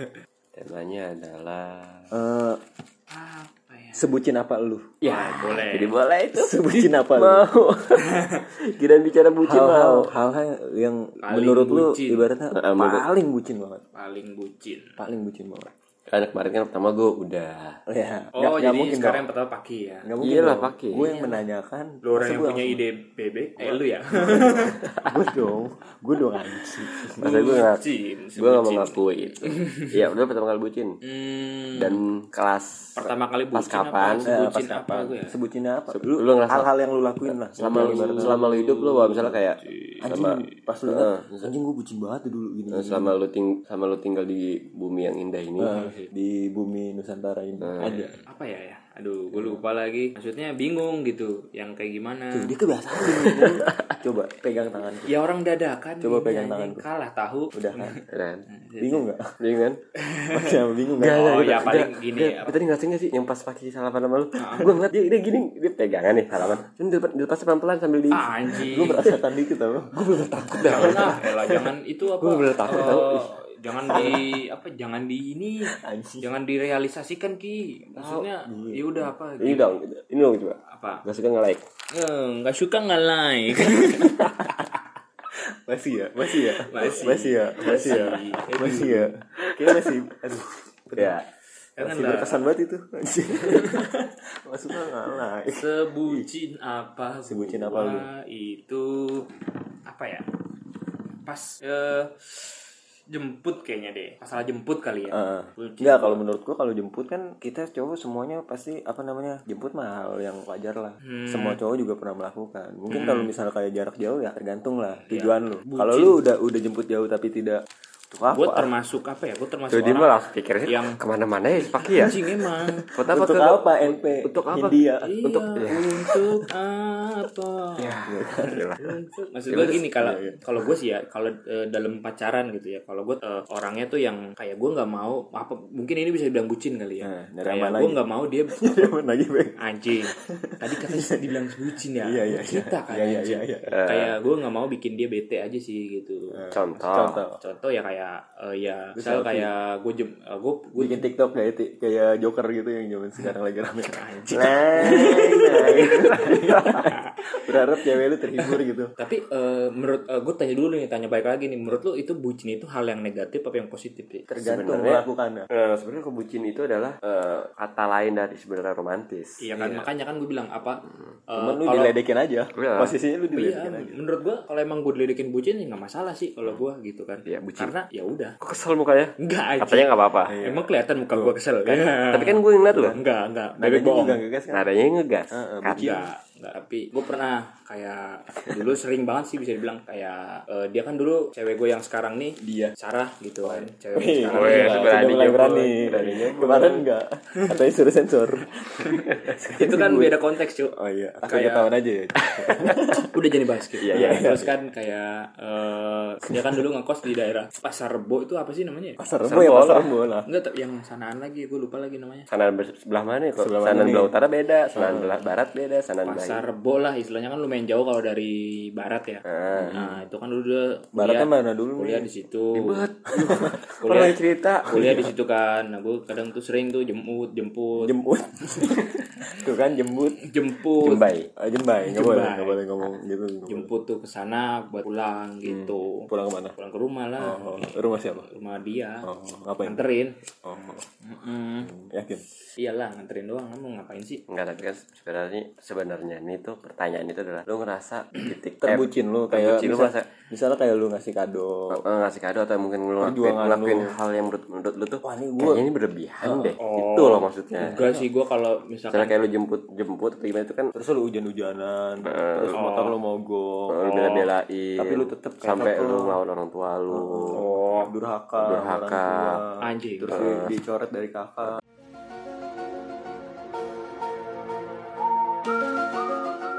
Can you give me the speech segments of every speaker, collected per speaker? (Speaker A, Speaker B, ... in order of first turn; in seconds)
Speaker A: 0.5-2.1, 5.0-10.1, 12.5-13.1, 16.1-17.8, 20.2-21.1, 27.2-27.8, 28.4-31.0, 31.8-34.3, 35.9-36.7, 37.2-41.5, 42.7-45.9, 47.6-48.1, 53.1-53.6, 58.1-58.5, 59.4-59.8, 61.0-69.2, 69.9-71.2, 72.2-73.3, 78.0-78.3, 79.4-81.6, 91.0-91.3, 119.7-125.9, 127.8-128.9, 129.5-129.8, 143.7-144.2, 146.5-147.2, 154.7-156.7, 164.4-169.9, 172.5-172.9, 177.2-177.7, 178.4-180.3, 181.7-183.0, 184.5-186.0, 194.3-196.8, 203.8-204.3, 209.2-210.0, 212.3-216.5, 219.2-219.8, 222.5-225.0, 230.8-231.3, 244.3-250.1, 251.7-257.8, 258.9-260.7, 262.0-262.6, 263.7-267.5, 268.4-269.4, 270.1-270.5
Speaker B: 2.1-2.6, 3.9-5.0, 6.3-7.7, 9.4-13.8, 15.0-15.7, 17.9-19.2, 20.0-22.8, 23.6-27.3, 34.2-39.4, 40.0-43.1, 45.6-48.1, 49.3-49.6, 52.3-55.1, 56.0-56.8, 57.5-58.0, 58.8-59.3, 60.3-61.8, 68.5-71.7, 73.8-74.2, 75.7-76.3, 78.4-79.1, 83.8-84.3, 85.3-91.2, 91.8-96.3, 97.2-98.1, 105.1-118.7, 123.0-125.1, 125.9-126.4, 128.1-128.6, 130.0-130.7, 137.0-138.0, 138.5-143.7, 146.3-147.4, 148.9-149.5, 150.8-158.9, 164.3-165.5, 171.3-174.0, 180.3-181.4, 182.7-183.0, 183.6-184.7, 185.3-186.0, 188.4-188.8, 192.4-192.7, 193.4-200.2, 200.7-203.2, 203.8-204.5, 206.3-206.6, 209.0-210.3, 213.4-214.1, 214.7-215.2, 219.5-220.0, 220.9-222.1, 223.2-223.5, 224.8-225.1, 227.8-230.3, 231.4-233.7, 235.4-236.5, 237.2-238.3, 239.0-239.8, 240.4-240.8, 241.6-242.2, 248.6-251.8, 253.0-253.9, 255.0-255.7, 257.6-258.1, 260.7-266.2, 266.9-271.6
Speaker C: 3.1-4.1, 5.0-5.9, 8.0-8.4, 11.2-12.3, 13.9-15.0, 18.3-20.1, 21.0-21.4, 22.0-24.8, 27.2-29.0, 31.0-32.0, 33.0-35.4, 37.6-38.5, 39.6-40.1, 45.7-46.1, 48.3-52.5, 53.0-53.9, 55.0-59.1, 60.0-60.6, 61.1-62.6, 64.3-64.8, 68.1-69.1, 70.6-79.8, 80.7-81.0, 81.9-84.8, 86.5-89.1, 91.8-92.5, 93.3-94.1, 95.5-100.3, 101.2-106.2, 111.0-111.6, 112.9-113.3, 115.0-116.2, 118.3-121.0, 121.6-122.9, 125.0-128.0, 128.8-139.0, 139.6-146.4, 147.3-151.0, 153.2-164.3, 169.4-171.9, 173.3-178.3, 179.2-184.2, 185.7-195.1, 199.5-201.7, 203.0-209.0, 210.2-212.3, 216.0-222.9, 223.8-227.9, 230.2-231.1, 231.8-232.9, 233.5-239.1, 239.6-240.2, 241.0-241.7, 242.6-244.2, 256.2-259.2, 262.5-263.0, 267.3-267.9, 269.6-270.4